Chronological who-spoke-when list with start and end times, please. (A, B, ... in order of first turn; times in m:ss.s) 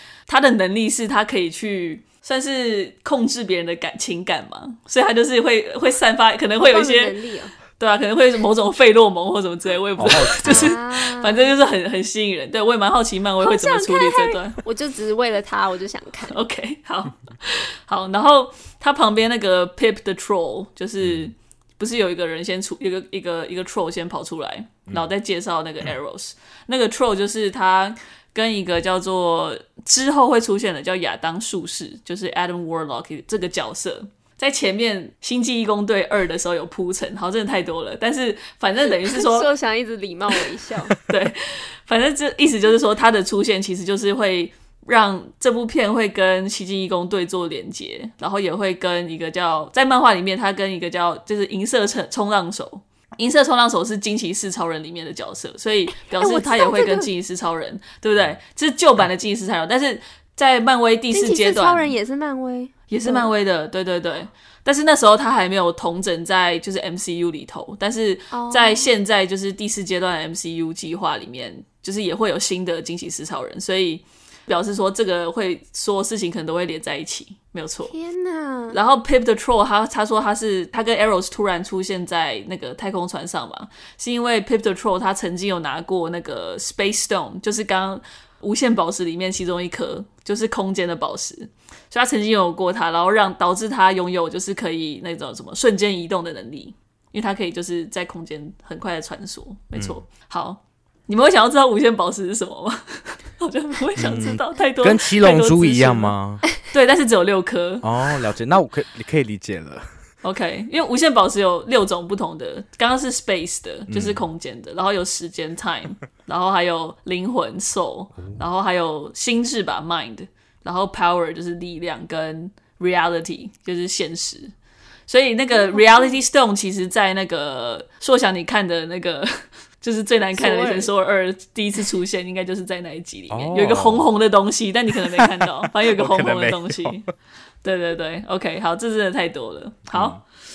0:00.3-0:07.2 A
0:06.6-0:07.5 B
0:07.8-0:14.6 A
0:10.0-0:10.8 C
0:10.4-0:11.5 B
0:13.4-0:16.4 B
0:16.3-0:39.5 A
0:21.0-0:21.3 C
0:39.0-0:41.0 B
0:41.0-1:01.9 A
0:56.0-0:57.1 B
1:01.1-1:03.3 B
1:02.9-1:17.9 A
1:08.3-1:08.9 B
1:17.9-1:18.8 B
1:18.7-1:47.9 A
1:39.8-1:40.0 C
1:44.0-1:46.4 C
1:47.8-1:49.9 C
1:50.2-2:04.5 A
1:53.9-1:54.3 C
2:05.1-2:17.1 A
2:05.5-2:06.2 B
2:10.3-2:10.9 B
2:13.3-2:14.1 C
2:15.1-2:17.0 C
2:17.6-2:20.2 A
2:19.9-2:20.2 C